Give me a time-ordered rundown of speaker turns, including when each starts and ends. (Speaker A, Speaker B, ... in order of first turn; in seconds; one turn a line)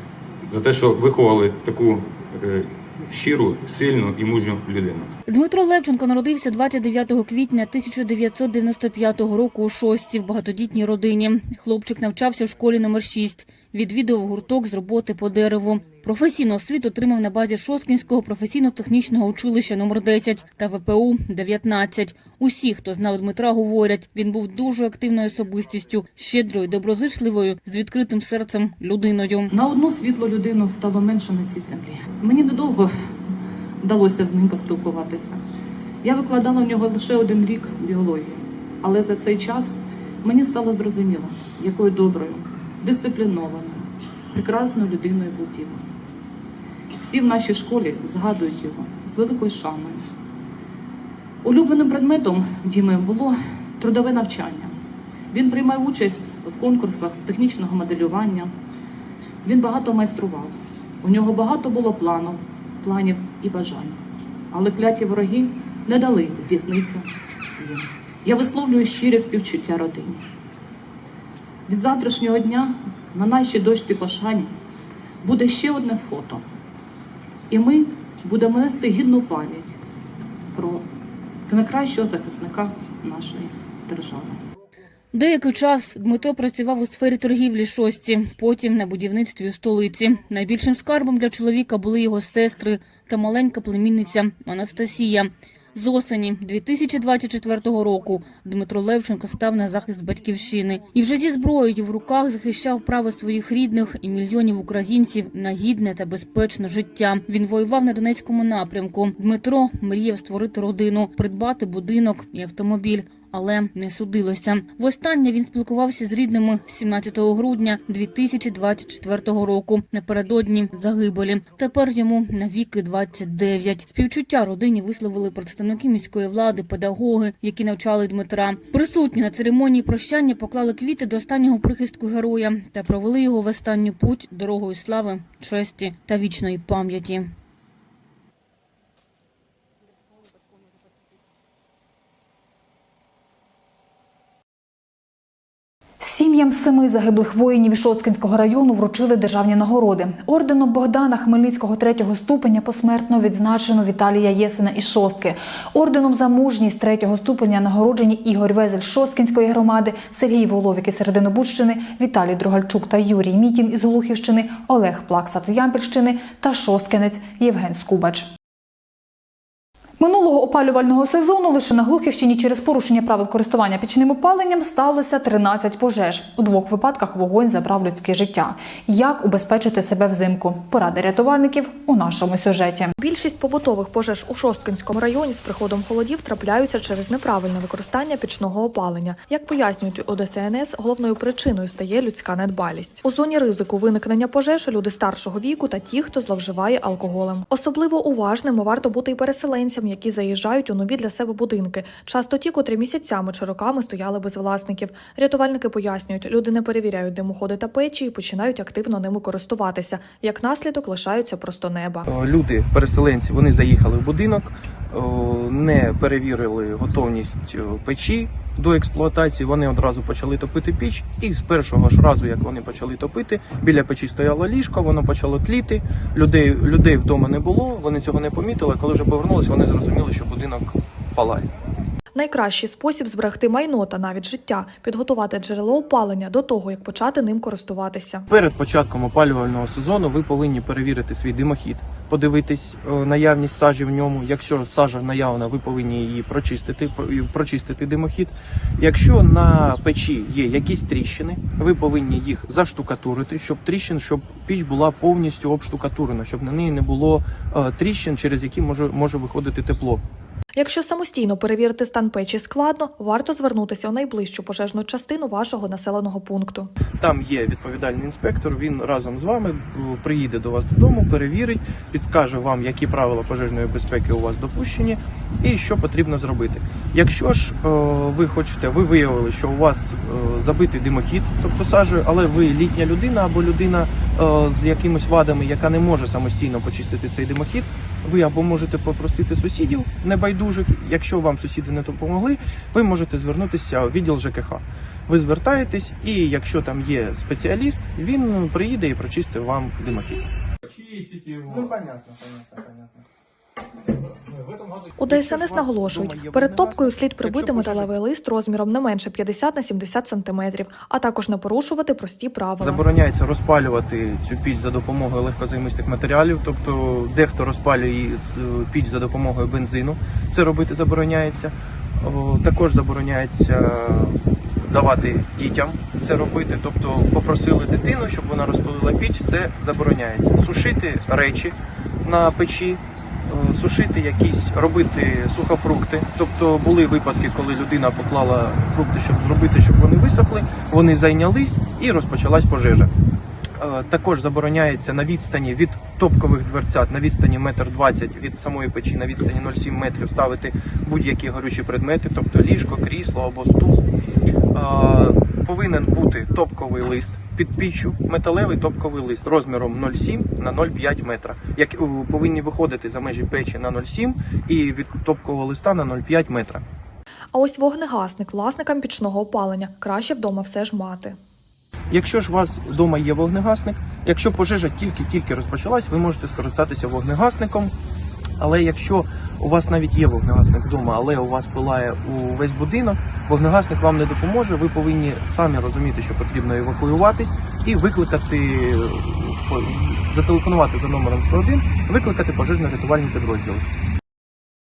Speaker A: 0.4-5.1
Speaker B: 5.3-29.5
Speaker C: 29.5-32.9
Speaker C: 33.8-35.4
Speaker C: 36.0-45.8
Speaker C: 47.0-50.0
Speaker C: 51.4-54.8
Speaker C: 55.3-58.5
Speaker C: 59.4-64.0
Speaker C: 64.5-67.1
Speaker C: 67.6-70.3
Speaker C: 71.7-74.5
Speaker C: 75.2-76.4
Speaker C: 77.5-79.8
Speaker C: 80.5-80.8
Speaker C: 81.5-84.4
Speaker B: 85.1-137.3
Speaker D: 146.0-168.3
Speaker D: 170.0-182.9
Speaker E: 183.0-212.1
Speaker F: 212.1-231.5
Speaker E: 232.1-238.3
Speaker F: 238.3-260.0
Speaker E: 260.6-266.7
Speaker F: 267.0-300.2
Speaker F: 300.8-303.1
Speaker F: 304.3-307.9
Speaker E: 305.0-312.8
Speaker F: 312.6-342.9
Speaker F: 343.6-353.8
Speaker F: 354.5-366.6
Speaker E: 367.3-371.2
Speaker F: 371.9-377.7
Speaker F: 378.4-393.6